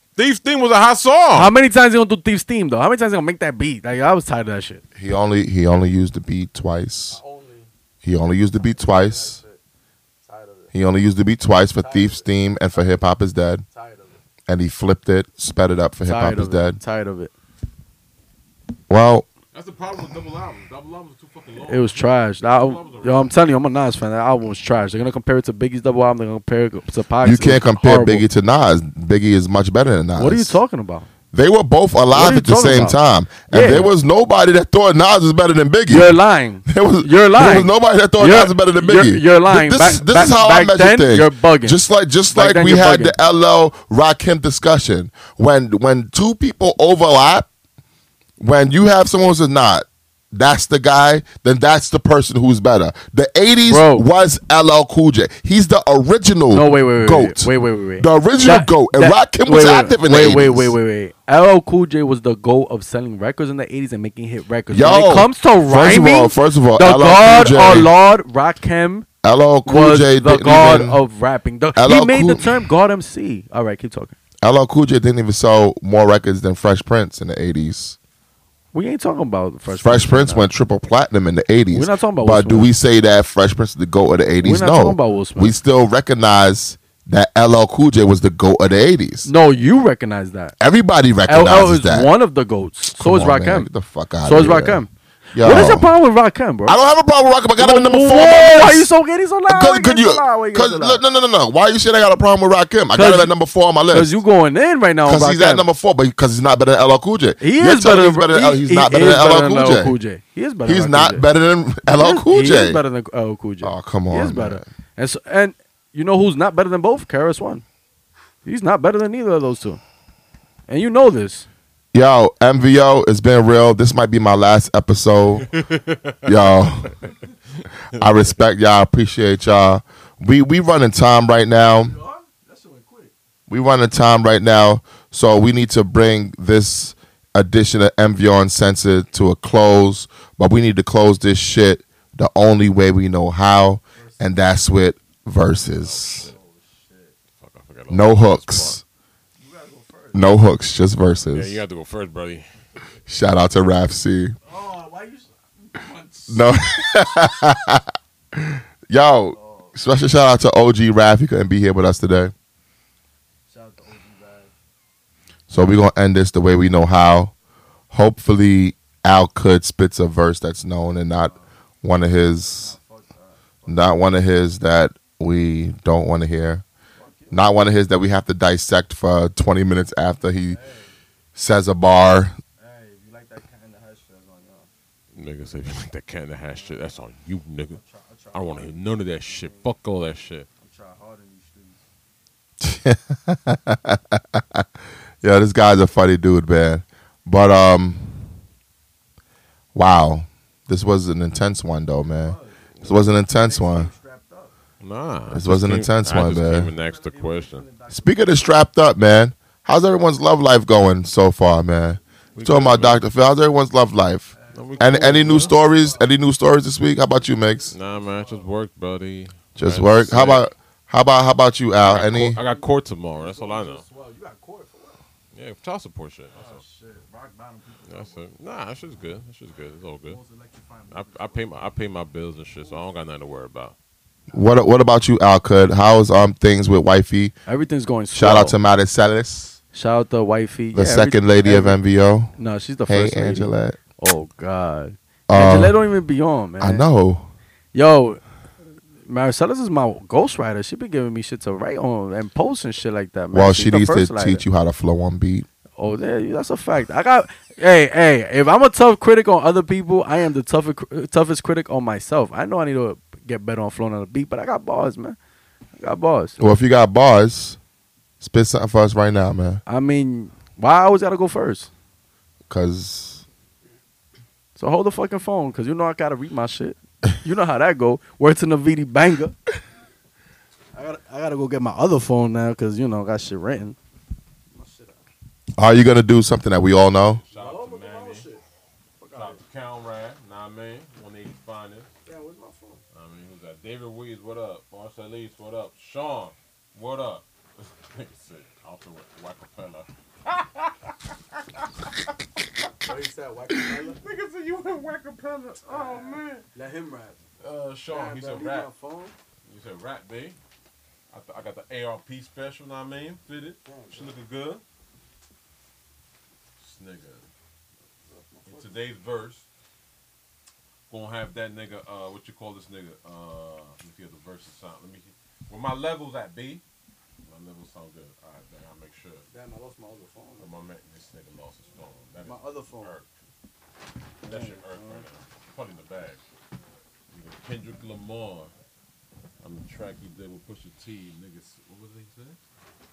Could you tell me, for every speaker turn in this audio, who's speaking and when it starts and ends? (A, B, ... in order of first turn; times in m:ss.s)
0:00.2-0:01.5 A
0:01.3-0:04.8 B
0:05.0-0:07.2 C
0:07.1-0:07.7 D
0:08.0-0:09.4 C
0:08.5-0:09.6 D
0:10.2-0:10.7 D
0:10.7-0:13.6 C
0:11.8-0:12.8 D
0:13.7-0:14.2 D
0:14.5-0:16.8 C
0:16.0-0:17.3 B
0:18.9-0:19.3 C
0:19.5-0:23.3 A
0:21.6-0:28.2 B
0:27.2-0:30.6 C
0:30.2-0:31.1 B
0:31.3-0:36.1 C
0:32.1-0:33.0 B
0:33.5-0:33.9 B
0:35.9-0:41.8 B
0:36.7-0:47.5 C
0:42.3-0:43.2 B
0:48.4-1:00.7 C
0:53.6-0:54.0 B
0:56.5-1:09.1 B
1:04.7-1:07.9 C
1:09.2-1:11.0 C
1:09.6-1:14.2 B
1:11.8-1:12.6 C
1:14.4-1:18.0 C
1:18.7-1:20.5 B
1:19.8-1:29.3 C
1:21.7-1:22.7 B
1:24.4-1:25.5 B
1:29.2-1:30.6 B
1:30.6-1:32.1 C
1:31.3-1:33.7 B
1:33.0-1:34.8 C
1:34.2-1:36.8 B
1:35.3-1:35.9 C
1:36.7-1:38.9 C
1:37.6-1:41.0 B
1:39.5-1:44.1 C
1:42.9-1:43.3 B
1:43.9-1:45.6 B
1:45.0-1:49.9 C
1:47.4-1:51.2 B
1:50.6-1:52.8 C
1:52.0-1:57.6 B
1:53.6-1:54.6 C
1:58.4-1:59.8 B
2:00.7-2:01.4 B
2:01.9-2:05.5 C
2:05.4-2:06.3 A
2:06.2-2:07.0 C
2:07.9-2:08.2 A
2:07.9-2:12.0 C
2:11.8-2:13.1 D
2:13.5-2:26.2 C
2:24.0-2:24.4 D
2:25.8-2:26.3 A
2:26.2-2:27.2 D
2:27.4-2:28.8 A
2:27.9-2:28.8 C
2:29.4-2:30.4 D
2:30.1-2:31.6 C
2:31.3-2:32.5 A
2:33.1-2:34.4 C
2:34.4-2:36.5 D
2:36.3-2:42.3 C
2:39.3-2:39.8 D
2:43.5-2:44.5 D
2:45.5-2:47.3 C
2:47.9-2:51.3 C
2:51.1-2:51.5 D
2:51.8-2:52.8 C
2:52.4-2:53.9 D
2:53.7-2:56.6 C
2:56.9-2:57.5 D
2:57.3-3:00.6 C
3:00.5-3:00.9 D
3:01.4-3:02.4 C
3:02.6-3:04.7 D
3:05.1-3:07.8 A
3:06.5-3:07.0 D
3:07.7-3:09.7 D
3:08.3-3:10.5 A
3:10.6-3:11.8 D
3:12.6-3:14.6 C
3:15.2-3:18.3 C
3:19.7-3:23.9 C
3:22.0-3:24.6 D
3:24.8-3:27.6 A
3:25.3-3:26.7 C
3:26.3-3:28.6 D
3:27.9-3:37.7 C
3:32.4-3:33.0 A
3:34.3-3:36.2 D
3:34.5-3:35.6 A
3:37.2-3:38.5 D
3:37.7-3:40.4 A
3:39.6-3:42.4 C
3:41.8-3:43.8 A
3:42.2-3:45.0 D
3:45.3-3:46.6 A
3:46.3-3:48.2 D
3:47.9-3:50.2 A
3:50.0-3:51.8 D
3:50.9-3:53.7 A
3:52.6-3:52.8 D
3:54.3-3:57.3 C
3:57.5-3:58.6 B
3:58.1-3:59.6 C
3:59.7-4:01.8 B
4:00.7-4:02.3 C
4:02.4-4:06.8 B
4:02.9-4:03.8 C
4:05.3-4:05.8 C
4:06.6-4:07.3 C
4:07.7-4:08.2 B
4:09.0-4:14.4 B
4:13.3-4:15.4 C
4:15.8-4:25.2 B
4:25.8-4:26.4 B
4:26.4-4:27.6 C
4:28.2-4:29.6 C
4:29.7-4:31.7 B
4:32.5-4:33.2 C
4:34.6-4:39.4 B
4:40.7-4:43.8 B
4:44.5-4:45.0 D
4:45.6-4:47.2 C
4:47.2-4:48.3 A
4:47.3-4:48.4 D
4:49.0-4:49.4 D
4:49.1-4:51.9 A
4:52.0-4:52.8 D
4:52.9-5:02.1 A
5:02.8-5:04.2 D
5:03.6-5:06.4 A
5:05.7-5:07.2 D
5:07.4-5:08.7 A
5:07.9-5:09.1 D
5:09.4-5:10.4 A
5:11.1-5:14.6 A
5:13.6-5:14.2 D
5:16.6-5:17.3 A
5:18.0-5:19.0 D
5:18.4-5:19.5 A
5:20.9-5:26.6 A
5:27.2-5:29.2 A
5:29.3-5:30.5 D
5:30.4-5:33.1 A
5:32.2-5:33.0 D
5:34.2-5:35.0 D
5:34.2-5:36.2 A
5:37.1-5:38.5 A
5:39.4-5:42.4 A